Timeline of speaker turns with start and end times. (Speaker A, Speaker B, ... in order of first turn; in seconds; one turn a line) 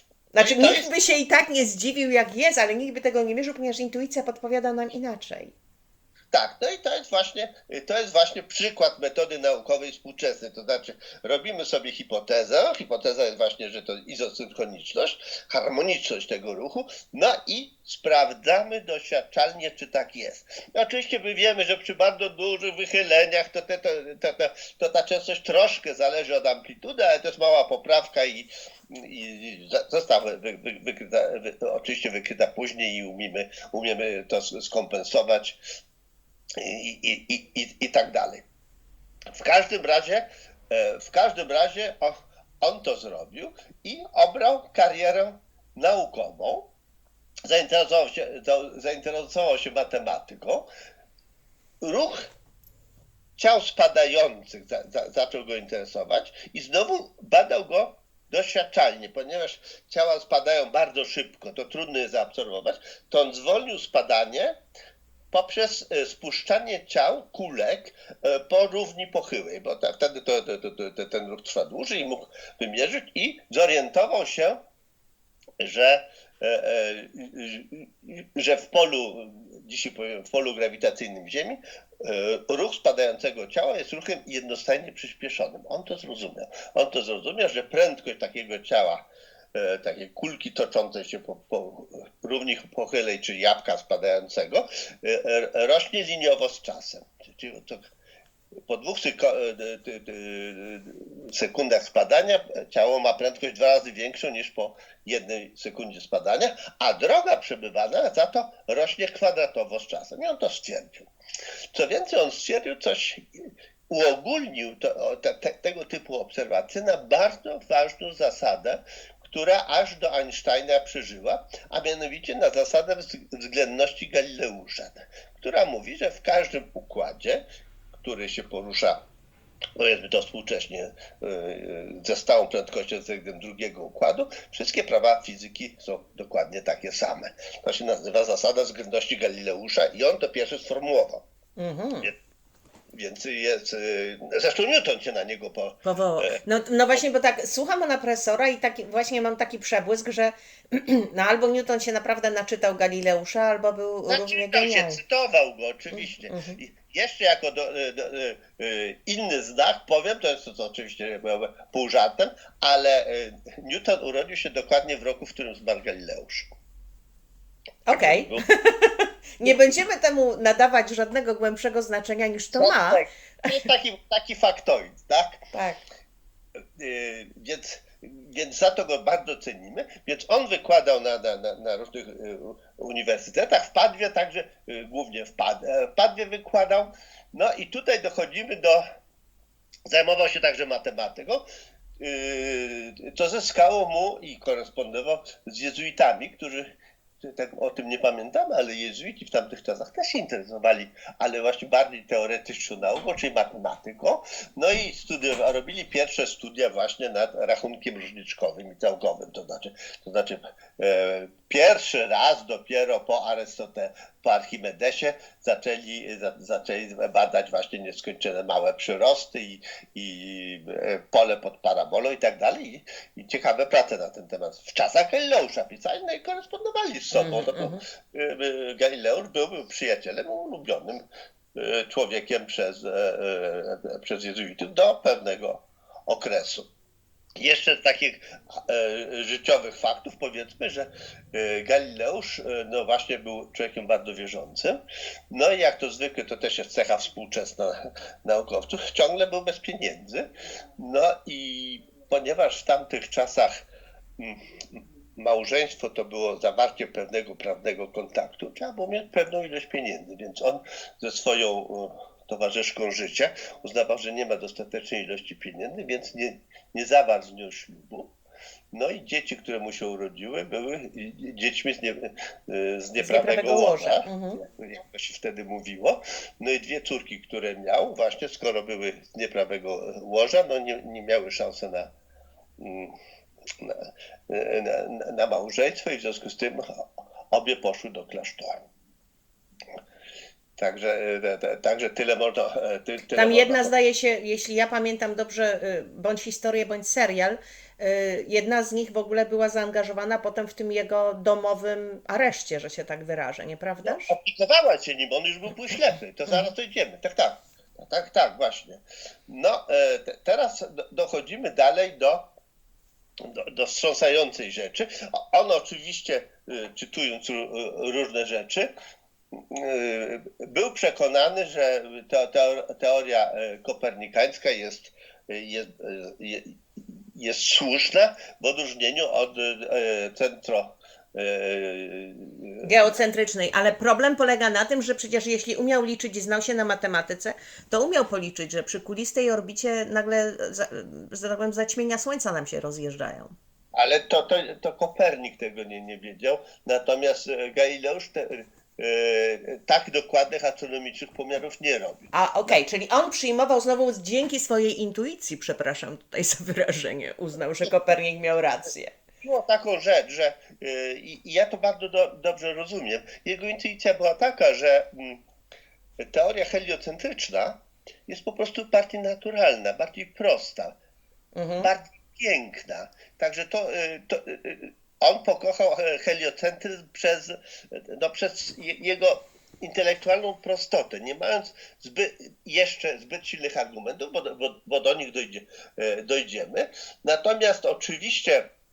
Speaker A: 0.3-5.5
Speaker B: 0.4-0.9
Speaker B: 6.3-35.6
Speaker B: 36.5-38.5
Speaker B: 39.3-46.7
Speaker B: 47.4-50.7
Speaker B: 51.8-52.3
Speaker B: 53.4-64.5
Speaker B: 65.3-74.6
Speaker B: 75.6-97.9
Speaker B: 98.7-111.1
Speaker B: 111.7-127.4
Speaker B: 128.0-129.0
Speaker B: 129.8-141.2
Speaker A: 141.6-142.1
Speaker B: 142.9-146.4
Speaker A: 145.8-155.0
Speaker B: 154.1-166.5
Speaker A: 155.9-156.6
Speaker A: 167.9-173.6
Speaker B: 167.9-168.4
Speaker B: 169.4-169.8
Speaker B: 172.5-175.4
Speaker A: 175.5-175.8
Speaker B: 176.8-188.8
Speaker B: 189.9-191.4
Speaker B: 192.0-196.7
Speaker B: 197.2-236.7
Speaker A: 227.1-227.8
Speaker B: 237.4-244.8
Speaker B: 245.3-253.6
Speaker B: 254.2-268.1
Speaker B: 268.7-281.9
Speaker A: 273.0-274.4
Speaker B: 282.6-282.9
Speaker B: 283.6-288.6
Speaker B: 290.6-293.7
Speaker A: 293.1-304.1
Speaker B: 303.8-312.3
Speaker B: 313.2-318.7
Speaker B: 319.3-332.7
Speaker A: 332.6-343.3
Speaker B: 343.7-352.6
Speaker A: 352.1-358.9
Speaker B: 359.2-365.2
Speaker B: 366.0-370.8
Speaker A: 371.3-371.7
Speaker B: 371.6-388.4